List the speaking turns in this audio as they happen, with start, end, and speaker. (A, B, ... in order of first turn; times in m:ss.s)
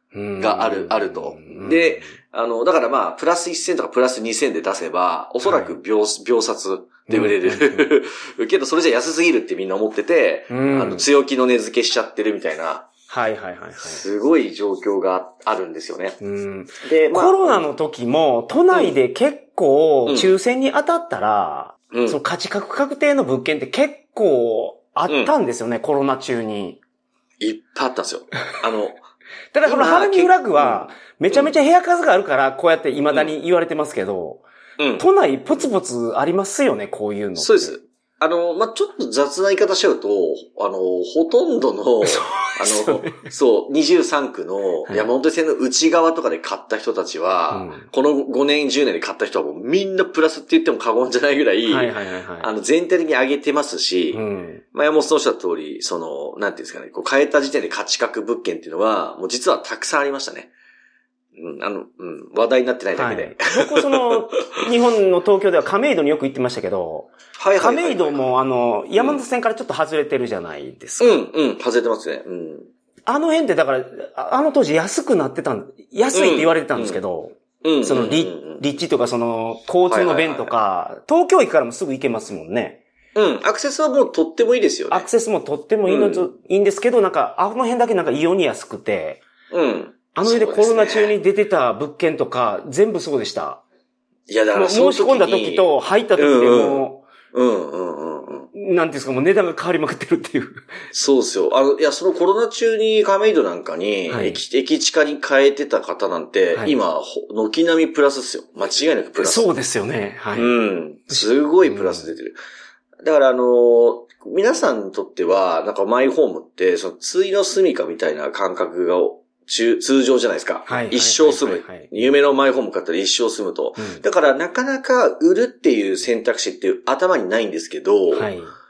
0:00.1-0:02.1 A
0:00.4-0:12.9 B
0:05.4-0:05.8 A
0:07.1-0:07.9 A
0:10.5-0:11.0 A
0:13.1-0:14.0 A
0:13.8-0:16.2 B
0:16.2-0:26.8 A
0:16.8-0:17.7 B
0:18.7-0:19.0 B
0:20.1-0:20.4 B
0:21.9-0:22.2 B
0:25.1-0:25.3 B
0:27.4-0:29.0 B
0:29.5-0:34.4 A
0:29.6-0:31.5 B
0:34.8-0:35.7 B
0:35.0-0:37.8 A
0:37.4-1:00.5 B
0:42.0-0:43.3 A
0:47.5-0:47.8 A
0:51.7-0:52.5 A
0:54.1-0:54.6 A
1:01.4-1:04.2 B
1:03.0-1:11.2 A
1:07.4-1:08.3 B
1:08.9-1:09.2 B
1:11.0-1:12.7 B
1:13.0-1:22.8 A
1:16.1-1:17.0 B
1:17.6-1:18.6 B
1:19.9-1:20.5 B
1:23.1-1:25.1 B
1:24.9-1:29.2 A
1:25.8-1:26.3 B
1:29.5-1:31.1 B
1:30.1-1:33.6 A
1:34.3-1:38.5 B
1:34.5-1:37.0 A
1:38.5-1:40.7 A
1:40.9-1:49.5 B
1:44.1-1:44.4 A
1:49.2-1:50.6 A
1:50.3-1:52.4 B
1:51.1-1:52.1 A
1:53.0-2:08.3 B
2:00.7-2:02.4 A
2:03.8-2:04.0 A
2:08.1-2:08.5 A